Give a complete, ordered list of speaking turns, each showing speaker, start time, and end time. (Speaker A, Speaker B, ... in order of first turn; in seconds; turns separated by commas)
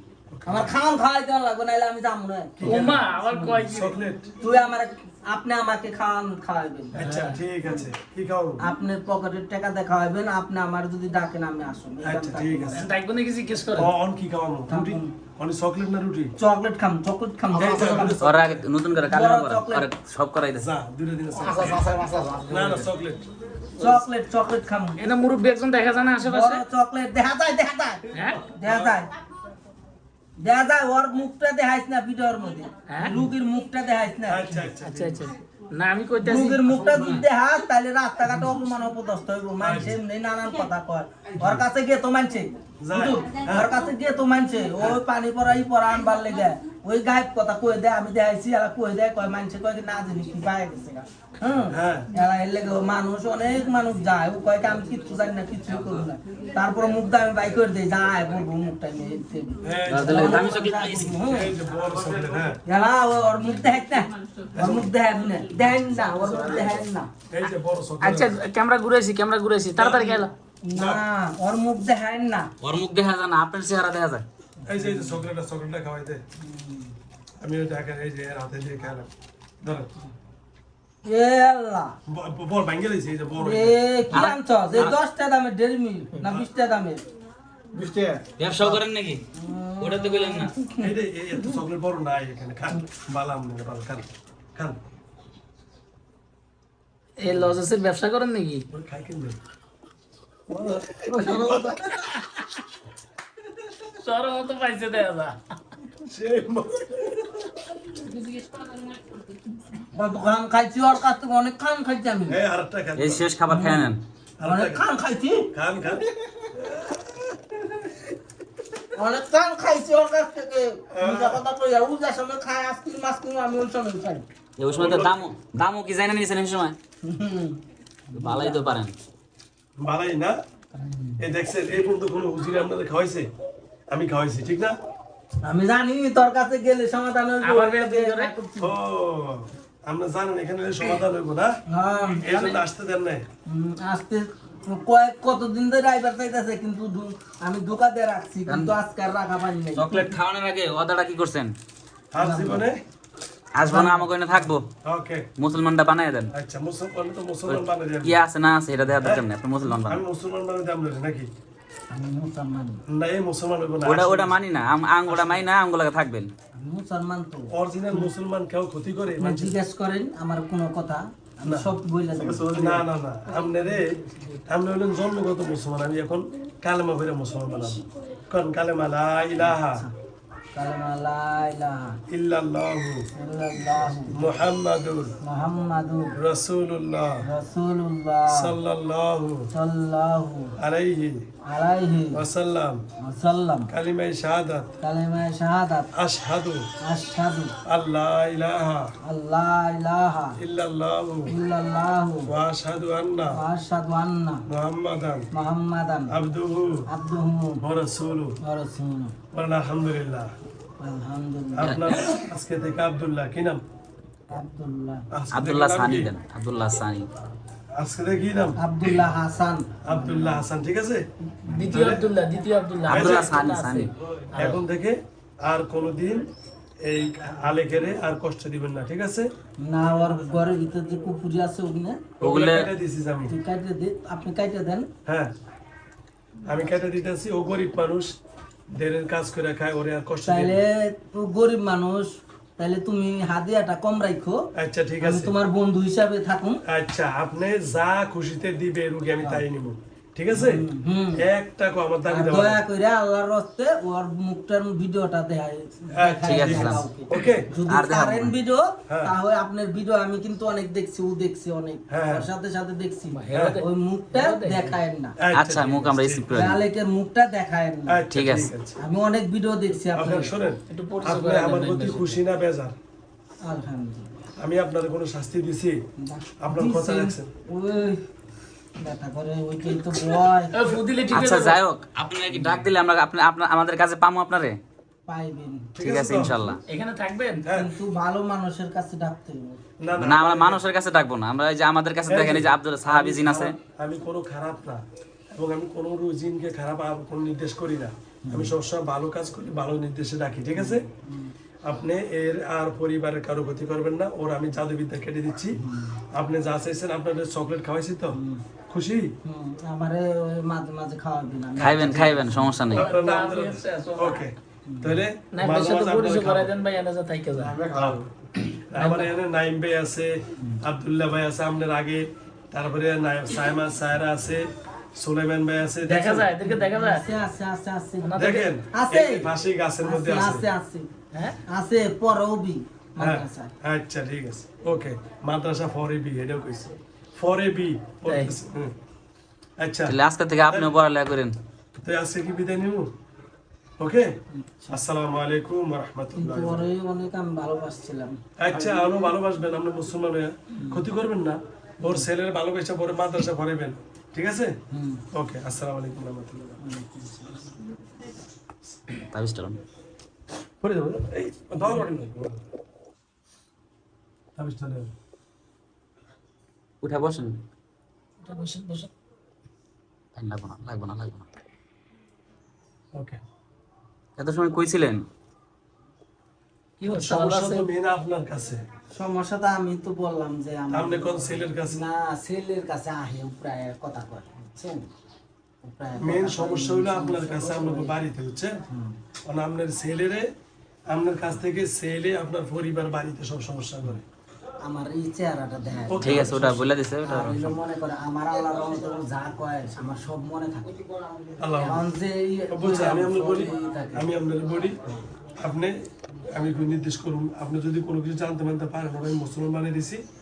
Speaker A: 0.3-0.7, Speaker B: 0.5-3.7, Speaker A: 2.6-3.1, Speaker C: 2.6-4.0, Speaker A: 3.7-4.3, Speaker B: 4.4-7.1, Speaker A: 7.0-8.7, Speaker C: 7.0-7.4, Speaker B: 8.6-12.9, Speaker A: 12.0-12.8, Speaker C: 12.7-13.9, Speaker A: 13.8-16.3, Speaker B: 14.7-15.1, Speaker B: 16.4-18.2, Speaker A: 17.5-18.7, Speaker D: 18.2-20.6, Speaker B: 19.1-19.9, Speaker A: 20.6-21.9, Speaker C: 21.4-22.8, Speaker A: 22.5-23.3, Speaker C: 23.8-24.0, Speaker B: 23.8-25.1, Speaker C: 25.0-26.6, Speaker B: 26.2-29.1, Speaker C: 28.1-28.5, Speaker A: 28.6-29.0, Speaker B: 30.4-34.6, Speaker C: 32.9-33.3, Speaker A: 34.3-35.3, Speaker C: 34.8-37.2, Speaker B: 36.2-61.6, Speaker A: 39.6-40.0, Speaker A: 42.8-43.7, Speaker A: 51.7-52.1, Speaker A: 59.6-62.6, Speaker D: 59.9-61.1, Speaker B: 62.6-67.1, Speaker A: 64.5-64.9, Speaker A: 66.1-68.3, Speaker C: 68.0-70.3, Speaker A: 69.8-71.0, Speaker B: 70.7-72.5, Speaker D: 72.6-74.2, Speaker A: 74.7-76.2, Speaker B: 74.7-75.3, Speaker B: 76.4-76.9, Speaker A: 77.4-79.1, Speaker A: 79.6-79.9, Speaker B: 81.0-82.0, Speaker A: 82.1-83.8, Speaker B: 83.4-87.0, Speaker D: 84.1-85.0, Speaker C: 87.8-88.2, Speaker D: 88.4-89.2, Speaker B: 89.3-90.9, Speaker D: 89.8-90.5, Speaker A: 90.8-94.8, Speaker C: 97.2-98.7, Speaker A: 98.7-99.4, Speaker A: 100.5-102.0, Speaker C: 101.2-102.6, Speaker C: 103.8-105.4, Speaker A: 106.0-107.6, Speaker C: 108.0-109.1, Speaker B: 109.9-112.4, Speaker A: 112.3-113.3, Speaker D: 113.0-114.0, Speaker B: 113.5-113.9, Speaker A: 114.4-114.8, Speaker B: 114.4-115.5, Speaker A: 115.5-118.0, Speaker B: 119.0-124.3, Speaker A: 120.9-121.4, Speaker D: 124.6-126.8, Speaker A: 124.7-125.3, Speaker B: 127.0-128.8, Speaker D: 128.2-128.9, Speaker A: 129.8-130.4, Speaker B: 130.8-131.2, Speaker A: 131.2-133.3, Speaker A: 133.9-134.8, Speaker B: 135.4-138.8, Speaker C: 137.4-138.3, Speaker A: 138.6-141.6, Speaker B: 141.7-142.6, Speaker A: 142.2-143.3, Speaker B: 143.5-150.1, Speaker D: 148.5-148.7, Speaker D: 149.8-151.5, Speaker A: 152.1-152.8, Speaker B: 152.2-152.7, Speaker D: 153.6-154.7, Speaker B: 153.6-154.1, Speaker A: 154.8-155.3, Speaker D: 155.4-156.3, Speaker A: 156.3-158.2, Speaker D: 157.5-160.0, Speaker A: 159.0-161.3, Speaker B: 161.9-162.8, Speaker A: 162.9-164.4, Speaker D: 163.8-166.3, Speaker B: 166.6-168.1, Speaker A: 167.5-169.6, Speaker B: 169.2-172.8, Speaker A: 171.5-179.8, Speaker C: 173.3-174.4, Speaker B: 179.4-179.9, Speaker B: 180.6-182.0, Speaker A: 182.1-183.1, Speaker B: 183.2-184.3, Speaker A: 184.1-185.1, Speaker B: 185.2-186.2, Speaker A: 186.2-187.2, Speaker B: 187.2-188.5, Speaker A: 188.3-189.5, Speaker B: 189.5-190.5, Speaker A: 190.6-191.2, Speaker B: 191.5-192.2, Speaker A: 192.1-192.8, Speaker B: 193.0-193.7, Speaker A: 193.7-194.8, Speaker B: 194.8-195.9, Speaker A: 195.9-196.7, Speaker B: 196.8-197.5, Speaker A: 197.7-198.9, Speaker B: 199.0-200.4, Speaker A: 200.4-201.3, Speaker B: 201.3-202.3, Speaker A: 202.3-203.4, Speaker B: 203.3-204.4, Speaker A: 204.5-205.3, Speaker B: 205.3-206.2, Speaker A: 206.1-206.9, Speaker B: 206.9-207.6, Speaker A: 207.6-208.4, Speaker B: 208.4-209.2, Speaker A: 209.3-210.3, Speaker B: 210.8-212.0, Speaker A: 211.6-213.6, Speaker D: 211.6-212.2, Speaker B: 214.3-215.1, Speaker A: 215.1-216.1, Speaker D: 215.3-217.1, Speaker A: 217.8-218.6, Speaker B: 218.6-219.9, Speaker A: 219.8-222.1, Speaker C: 221.4-224.6, Speaker D: 222.9-223.9, Speaker A: 222.9-223.4, Speaker A: 224.3-226.3, Speaker A: 226.8-229.3, Speaker B: 229.6-232.1, Speaker A: 232.2-233.3, Speaker D: 232.2-232.7, Speaker B: 233.3-234.9, Speaker A: 235.1-235.3, Speaker A: 236.4-238.2, Speaker A: 238.7-240.6, Speaker B: 240.3-244.4, Speaker A: 244.6-245.3, Speaker B: 245.0-246.6, Speaker A: 246.7-252.6, Speaker B: 250.3-251.2, Speaker B: 252.1-265.1, Speaker A: 255.9-257.5, Speaker D: 256.2-256.9, Speaker D: 257.7-258.3, Speaker A: 258.9-259.1, Speaker A: 261.9-262.3, Speaker C: 263.1-264.8, Speaker A: 263.3-263.6, Speaker A: 265.2-266.3, Speaker D: 265.3-266.6, Speaker B: 266.3-268.0, Speaker A: 267.9-268.8, Speaker D: 268.1-268.5, Speaker B: 268.8-270.3, Speaker A: 269.9-272.8, Speaker C: 270.7-272.2, Speaker B: 273.4-274.1, Speaker A: 274.4-275.8, Speaker B: 276.0-278.0, Speaker A: 276.4-277.3, Speaker B: 278.8-280.6, Speaker C: 280.5-281.6, Speaker D: 281.1-284.6, Speaker B: 285.1-285.8, Speaker A: 285.8-286.5, Speaker D: 285.8-286.6, Speaker C: 286.7-287.5, Speaker A: 287.4-287.7, Speaker B: 287.5-289.6, Speaker A: 289.8-290.6, Speaker D: 290.0-293.6, Speaker A: 292.1-300.9, Speaker B: 298.3-298.6, Speaker B: 300.6-301.3, Speaker A: 301.6-305.6, Speaker B: 305.6-306.0, Speaker A: 306.1-308.2, Speaker B: 308.1-308.4, Speaker A: 308.7-309.1, Speaker B: 309.2-312.6, Speaker D: 311.6-312.9, Speaker A: 312.7-316.5, Speaker C: 312.7-314.2, Speaker B: 314.7-315.0, Speaker C: 315.3-317.9, Speaker A: 317.6-318.1, Speaker A: 318.7-326.3, Speaker C: 318.8-319.1, Speaker C: 325.9-327.1, Speaker B: 326.4-329.3, Speaker C: 328.0-328.5, Speaker A: 328.2-330.5, Speaker B: 329.8-330.9, Speaker C: 331.1-331.4, Speaker B: 331.4-333.5, Speaker A: 333.0-338.7, Speaker C: 338.1-338.4, Speaker A: 339.6-340.0, Speaker D: 339.9-341.4, Speaker A: 340.5-340.7, Speaker A: 341.8-342.9, Speaker A: 343.8-344.1, Speaker B: 344.3-344.8, Speaker A: 344.7-346.7, Speaker B: 346.2-348.9, Speaker A: 348.4-354.6, Speaker B: 350.6-350.9, Speaker B: 351.8-352.1, Speaker B: 354.7-355.0, Speaker A: 355.1-356.6, Speaker B: 356.6-357.7, Speaker D: 359.1-359.6, Speaker A: 360.6-362.4, Speaker A: 364.4-364.9, Speaker D: 366.8-367.4, Speaker C: 368.2-368.9, Speaker D: 370.2-371.3, Speaker A: 372.9-373.2, Speaker D: 374.2-375.1, Speaker C: 376.8-377.7, Speaker A: 376.9-378.6, Speaker B: 378.9-384.9, Speaker A: 380.7-381.8, Speaker B: 385.6-388.0, Speaker A: 386.0-388.6, Speaker B: 388.7-388.9, Speaker A: 389.2-390.3, Speaker A: 390.9-394.0, Speaker B: 394.6-396.5, Speaker A: 395.9-396.6, Speaker D: 396.0-397.6, Speaker B: 397.0-400.8, Speaker A: 401.4-401.9, Speaker B: 401.6-404.1, Speaker A: 402.5-404.8, Speaker A: 405.3-410.0